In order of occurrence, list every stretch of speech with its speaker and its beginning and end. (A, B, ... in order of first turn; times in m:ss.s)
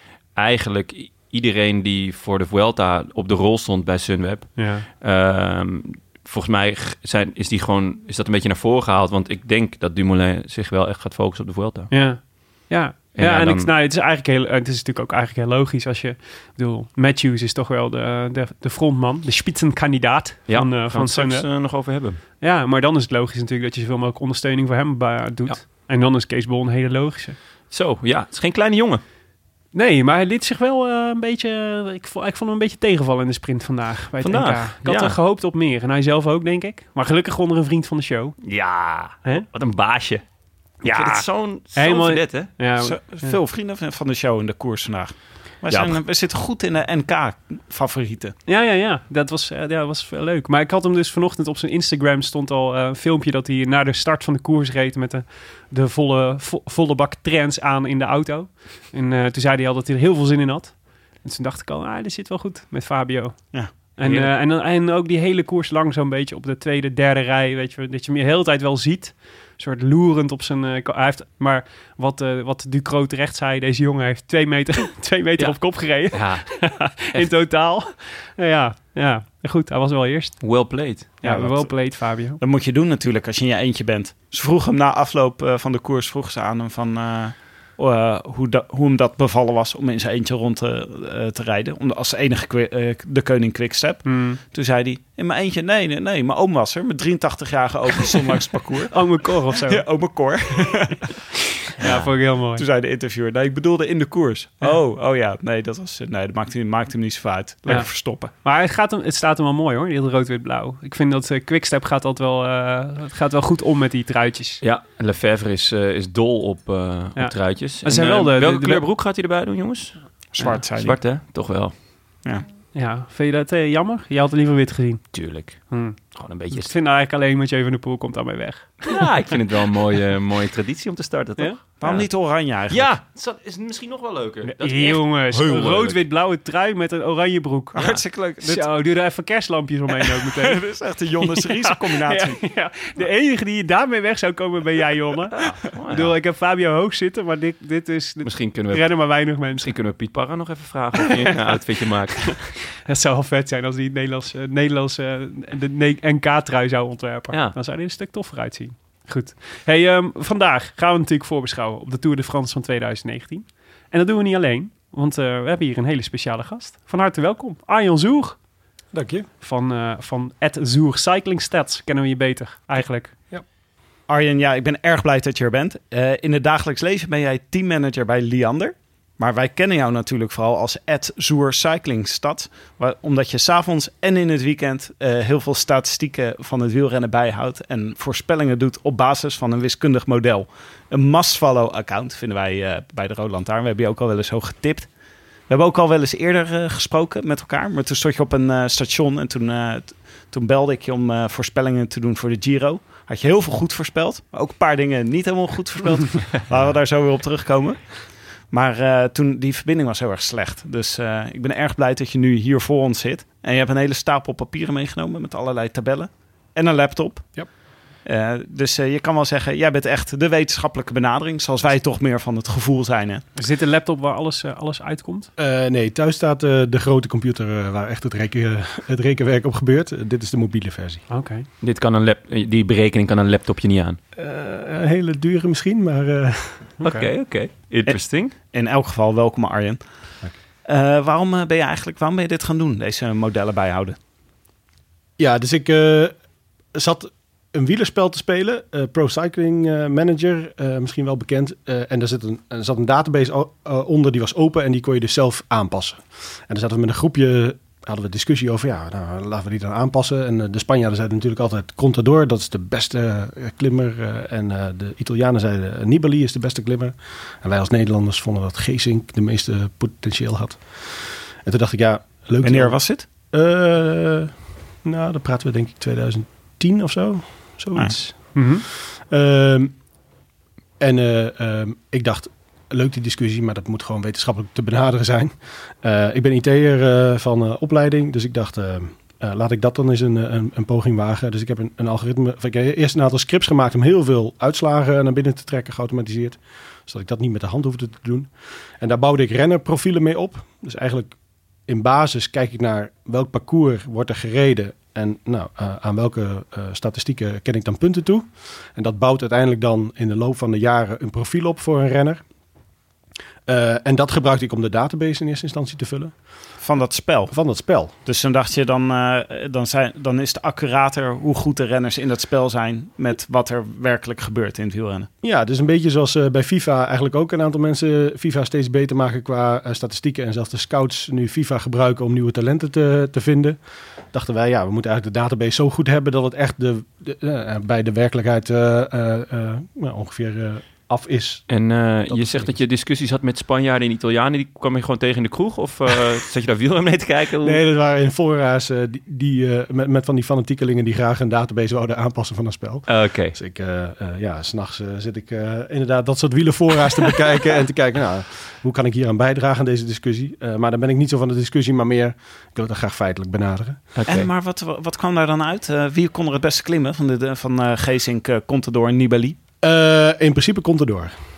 0:00.3-0:11.9 A
0:04.6-0:04.9 B
0:11.9-0:21.5 B
0:13.2-0:13.7 A
0:20.5-0:22.2 A
0:22.4-0:27.4 B
0:27.7-0:29.0 A
0:29.7-0:38.4 B
0:34.2-0:35.2 A
0:38.4-0:40.2 A
0:40.8-0:43.4 B
0:40.8-0:42.5 A
0:42.8-0:48.3 C
0:45.7-0:46.0 A
0:48.4-1:20.5 B
1:03.5-1:04.3 C
1:15.4-1:17.3 A
1:20.4-1:21.7 A
1:21.2-1:22.4 B
1:22.4-1:41.2 C
1:34.0-1:34.4 B
1:38.9-1:39.8 B
1:41.8-1:42.6 B
1:41.8-1:42.1 A
1:42.6-1:48.3 C
1:47.6-1:54.6 B
1:54.6-2:00.0 A
1:57.2-1:58.8 B
2:00.3-2:01.0 C
2:00.8-2:01.7 A
2:02.7-2:06.0 B
2:05.1-2:06.7 A
2:06.5-2:09.0 B
2:08.8-2:12.1 A
2:11.8-2:12.9 C
2:12.7-2:16.0 A
2:14.6-2:20.6 B
2:17.8-2:18.7 C
2:20.0-2:22.4 C
2:21.2-2:29.7 B
2:25.3-2:26.1 A
2:28.2-2:32.5 A
2:32.7-2:48.4 B
2:48.9-2:49.3 D
2:49.4-2:53.1 B
2:54.1-3:14.9 C
3:15.5-3:28.0 C
3:28.5-3:37.4 C
3:38.0-3:43.2 C
3:43.4-3:45.3 B
3:45.4-3:51.0 D
3:51.1-3:51.5 B
3:51.6-3:54.0 A
3:54.1-3:56.7 D
3:56.8-3:57.1 B
3:56.8-3:58.3 A
3:57.8-3:59.8 C
4:00.6-4:04.0 C
4:05.2-4:06.1 D
4:06.7-4:32.8 D
4:32.4-4:33.0 C
4:33.3-4:34.3 D
4:34.8-4:39.7 D
4:38.3-4:38.6 B
4:40.8-5:01.1 D
5:01.7-5:12.2 D
5:13.4-5:16.1 D
5:16.6-5:17.3 C
5:17.3-5:17.9 D
5:18.0-5:25.1 C
5:25.2-5:33.6 D
5:34.1-5:41.5 D
5:41.5-5:47.6 A
5:42.1-5:42.6 D
5:47.4-6:03.8 D
5:52.9-5:53.4 A
6:03.9-6:04.3 A
6:04.0-6:09.4 C
6:09.6-6:11.1 D